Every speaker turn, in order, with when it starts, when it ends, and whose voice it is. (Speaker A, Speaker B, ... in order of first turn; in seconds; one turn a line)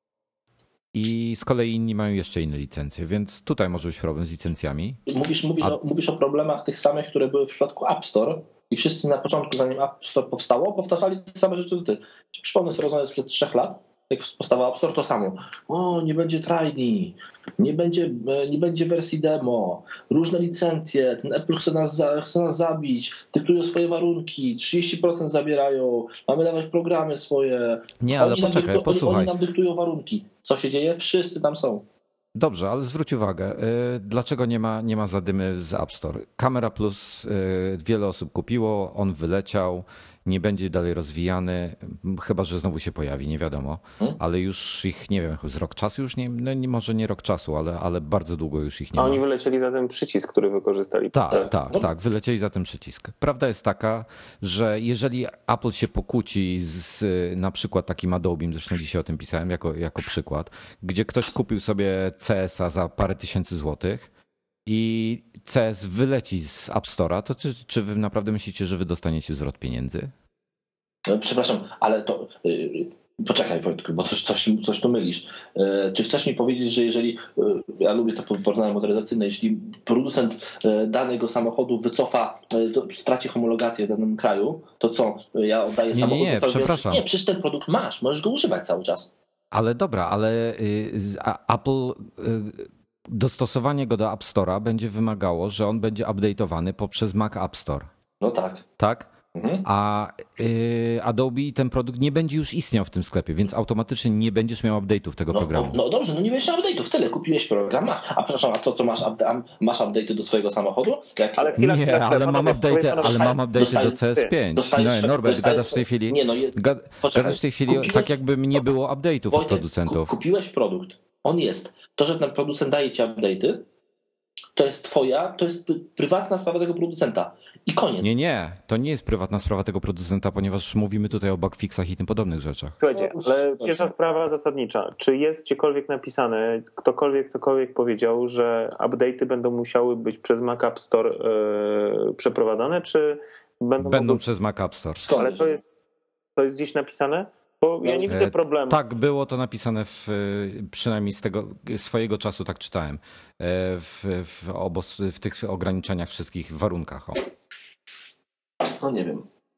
Speaker A: 0.9-5.0
Speaker B: 5.1-31.9
Speaker A: 28.0-29.3
Speaker A: 32.3-49.2
Speaker C: 49.0-51.4
Speaker A: 51.1-64.1
Speaker B: 51.3-51.9
Speaker A: 64.7-70.1
Speaker B: 71.1-89.1
Speaker A: 85.9-87.0
Speaker A: 89.5-97.9
Speaker B: 98.2-98.7
Speaker A: 98.8-99.1
Speaker B: 99.3-99.7
Speaker A: 99.6-105.8
Speaker B: 105.3-111.6
Speaker C: 111.3-114.3
Speaker A: 111.5-120.1
Speaker B: 113.0-118.2
Speaker B: 119.3-123.7
Speaker B: 124.5-128.1
Speaker A: 128.0-132.8
Speaker C: 132.8-144.2
Speaker B: 132.9-133.9
Speaker A: 143.8-145.1
Speaker B: 145.0-145.6
Speaker C: 145.1-145.7
Speaker C: 146.3-148.8
Speaker B: 147.8-148.1
Speaker A: 148.1-157.2
Speaker B: 158.6-159.3